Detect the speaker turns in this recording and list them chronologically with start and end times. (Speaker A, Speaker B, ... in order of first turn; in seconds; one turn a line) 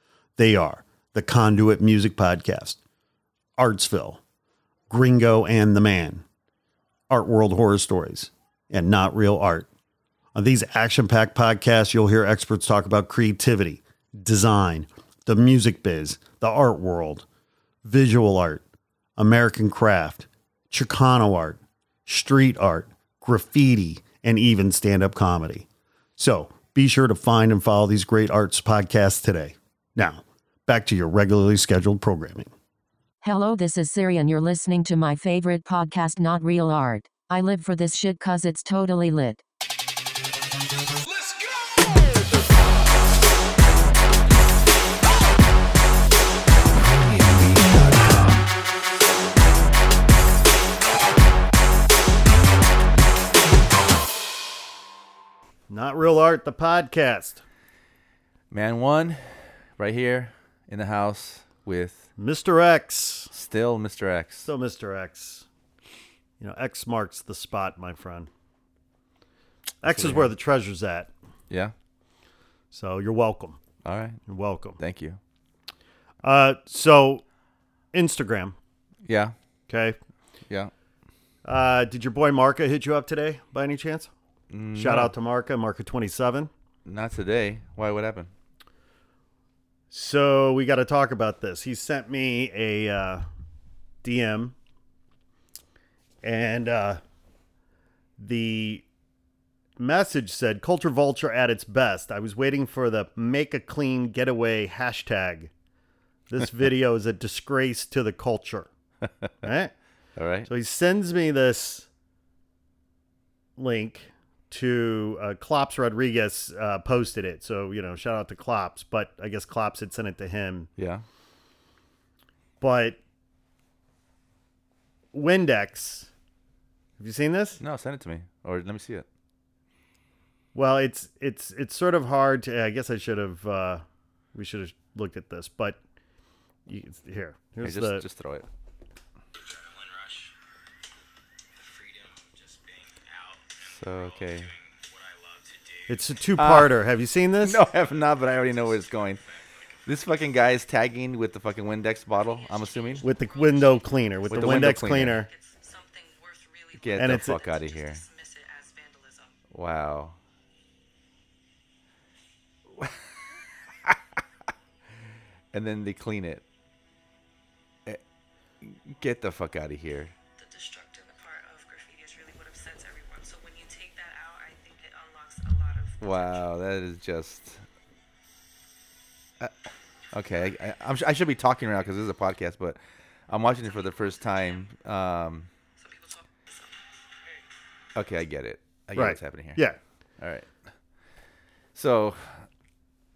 Speaker A: 0.4-2.8
Speaker A: 3.6-4.2
Speaker A: 4.9-6.2
Speaker A: 7.1-9.7
Speaker A: 10.3-17.2
Speaker A: 17.8-18.6
Speaker A: 19.2-25.7
Speaker A: 26.2-32.5
Speaker B: 33.2-39.4
Speaker C: 46.9-48.4
Speaker A: 55.7-57.4
Speaker C: 58.5-62.1
Speaker A: 62.2-63.3
Speaker C: 63.3-64.5
Speaker A: 64.5-65.5
Speaker A: 66.4-68.3
Speaker A: 69.8-71.1
Speaker C: 69.8-70.3
Speaker A: 72.7-73.6
Speaker C: 73.8-74.2
Speaker A: 74.3-74.8
Speaker C: 74.8-75.2
Speaker A: 76.2-77.2
Speaker A: 77.9-78.6
Speaker C: 79.0-79.3
Speaker A: 79.7-80.0
Speaker A: 81.5-84.1
Speaker C: 84.5-85.1
Speaker A: 84.8-86.5
Speaker C: 86.8-88.3
Speaker A: 89.9-93.2
Speaker A: 94.0-94.5
Speaker A: 96.2-97.0
Speaker A: 98.2-98.8
Speaker A: 99.8-105.5
Speaker A: 106.3-108.7
Speaker A: 109.4-109.7
Speaker C: 110.2-110.5
Speaker A: 110.5-111.9
Speaker A: 113.6-120.7
Speaker C: 120.8-121.0
Speaker A: 122.6-123.0
Speaker A: 125.1-126.1
Speaker A: 127.0-127.6
Speaker C: 127.6-129.1
Speaker A: 130.6-135.8
Speaker A: 136.7-138.1
Speaker C: 137.6-138.5
Speaker D: 139.4-140.4
Speaker D: 141.6-146.1
Speaker C: 143.7-144.5
Speaker A: 145.9-147.6
Speaker C: 146.4-146.7
Speaker C: 147.4-149.2
Speaker D: 149.4-149.8
Speaker C: 149.9-153.1
Speaker E: 152.2-159.4
Speaker A: 153.0-155.3
Speaker C: 154.3-155.2
Speaker C: 156.8-158.0
Speaker A: 157.0-157.4
Speaker C: 159.5-160.2
Speaker C: 165.5-166.4
Speaker C: 168.6-170.1
Speaker E: 170.4-176.5
Speaker C: 176.0-177.6
Speaker C: 180.1-182.8
Speaker C: 183.3-185.5
Speaker E: 185.8-186.8
Speaker C: 187.9-189.6
Speaker A: 188.9-189.8
Speaker C: 190.2-190.5
Speaker C: 191.8-192.4